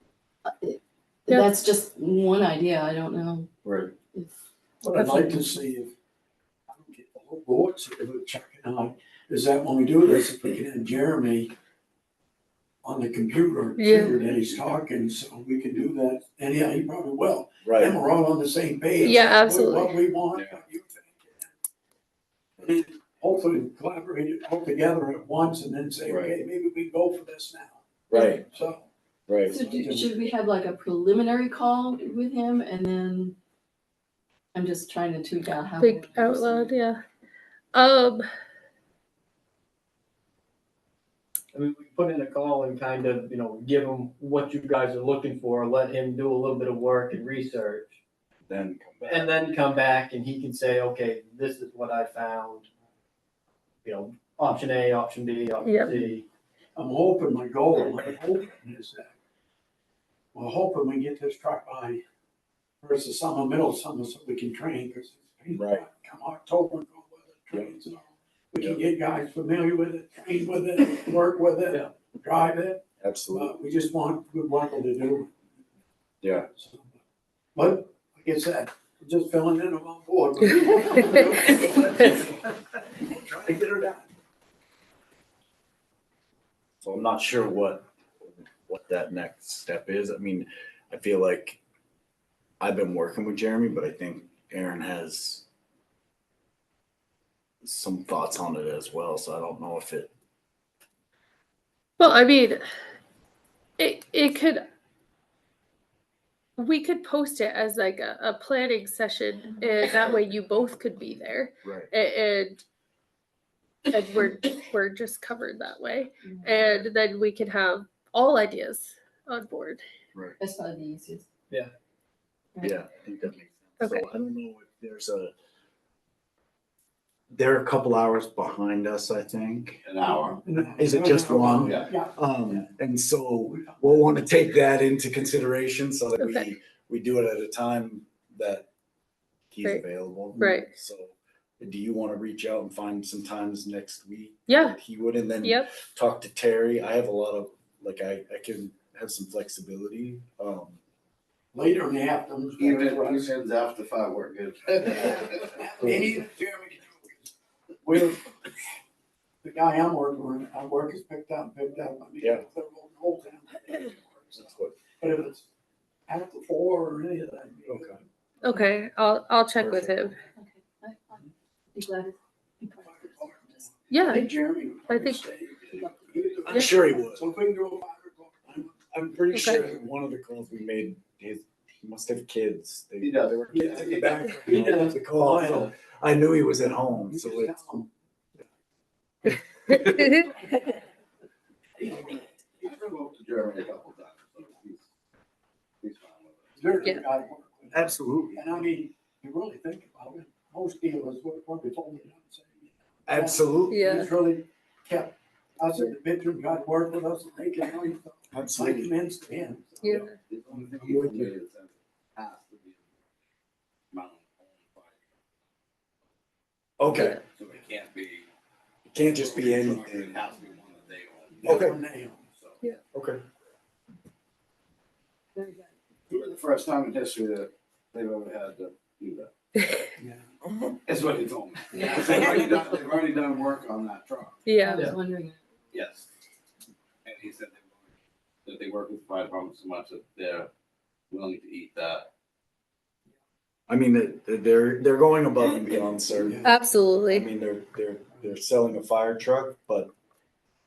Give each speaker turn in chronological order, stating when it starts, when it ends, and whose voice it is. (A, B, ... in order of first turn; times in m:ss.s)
0:00.4-0:03.5 A
0:03.6-0:03.9 B
0:04.8-0:05.9 C
0:04.9-0:05.2 D
0:06.7-0:11.5 C
0:12.8-0:21.5 C
0:13.8-0:14.2 D
0:17.6-0:17.9 B
0:19.0-0:20.0 D
0:20.3-0:20.6 E
0:22.6-0:27.8 C
0:26.1-0:26.3 B
0:28.1-0:28.4 B
0:28.1-0:28.4 D
0:28.5-0:28.8 C
0:29.3-0:29.5 B
0:29.4-0:33.4 A
0:29.5-0:30.1 C
0:34.5-0:36.7 A
0:35.8-0:37.0 D
0:37.7-0:38.2 D
0:41.5-0:48.0 F
0:48.5-0:49.4 B
0:49.0-0:52.7 F
0:53.8-0:56.2 F
0:55.6-0:55.9 D
0:56.8-0:59.1 C
1:00.3-1:02.0 C
1:02.8-1:15.3 C
1:05.5-1:05.8 B
1:13.0-1:13.5 B
1:16.2-1:16.5 B
1:16.5-1:17.0 C
1:17.5-1:24.1 C
1:26.8-1:31.6 B
1:32.6-1:35.4 B
1:37.6-1:40.1 B
1:42.0-1:42.6 D
1:43.8-1:44.6 D
1:46.6-1:52.6 D
1:51.6-1:51.9 B
1:53.9-1:59.8 D
2:00.4-2:01.2 A
2:02.6-2:02.8 A
2:02.6-2:05.3 B
2:03.8-2:04.3 D
2:07.3-2:09.8 B
2:09.8-2:10.4 E
2:10.4-2:12.2 C
2:10.6-2:18.7 B
2:11.6-2:11.9 E
2:13.5-2:14.1 C
2:16.2-2:16.5 D
2:19.5-2:30.8 B
2:20.3-2:20.6 C
2:20.4-2:20.7 D
2:24.5-2:24.8 D
2:31.5-2:33.3 C
2:32.6-2:35.5 E
2:35.5-2:37.3 C
2:37.8-2:38.3 C
2:39.4-2:45.5 C
2:44.4-2:44.7 B
2:46.1-2:48.0 C
2:47.7-2:48.0 B
2:48.4-2:50.2 D
2:49.6-2:50.1 B
2:50.4-2:53.7 A
2:52.8-2:58.8 C
2:53.9-2:54.3 D
2:54.9-2:55.2 D
2:55.7-2:56.2 A
2:56.4-2:57.2 B
2:58.9-3:07.6 B
2:59.3-2:59.6 D
3:03.0-3:04.1 E
3:03.5-3:05.7 C
3:07.1-3:07.9 C
3:09.3-3:10.2 B
3:09.8-3:10.2 D
3:11.8-3:14.9 E
3:15.8-3:16.6 E
3:16.6-3:30.0 C
3:17.7-3:18.6 B
3:23.1-3:23.9 B
3:23.7-3:24.1 D
3:28.3-3:28.9 B
3:29.8-3:30.1 D
3:29.9-3:31.3 B
3:30.2-3:32.9 E
3:33.9-3:35.0 E
3:36.8-3:37.2 B
3:37.3-3:38.3 E
3:38.9-3:40.2 B
3:39.0-3:41.5 E
3:41.4-3:42.3 C
3:41.4-3:41.8 B
3:42.9-3:43.2 B
3:45.4-3:45.7 A
3:46.1-3:49.3 E
3:50.0-3:50.3 C
3:50.8-3:54.4 E
3:51.7-3:52.3 A
3:54.4-3:54.9 D
3:54.6-3:55.4 A
3:55.7-3:56.1 E
3:57.0-3:57.9 E
3:58.4-4:00.5 E
4:01.1-4:02.1 E
4:03.7-4:06.5 B
4:06.2-4:06.5 C
4:06.4-4:07.2 D
4:07.1-4:09.9 B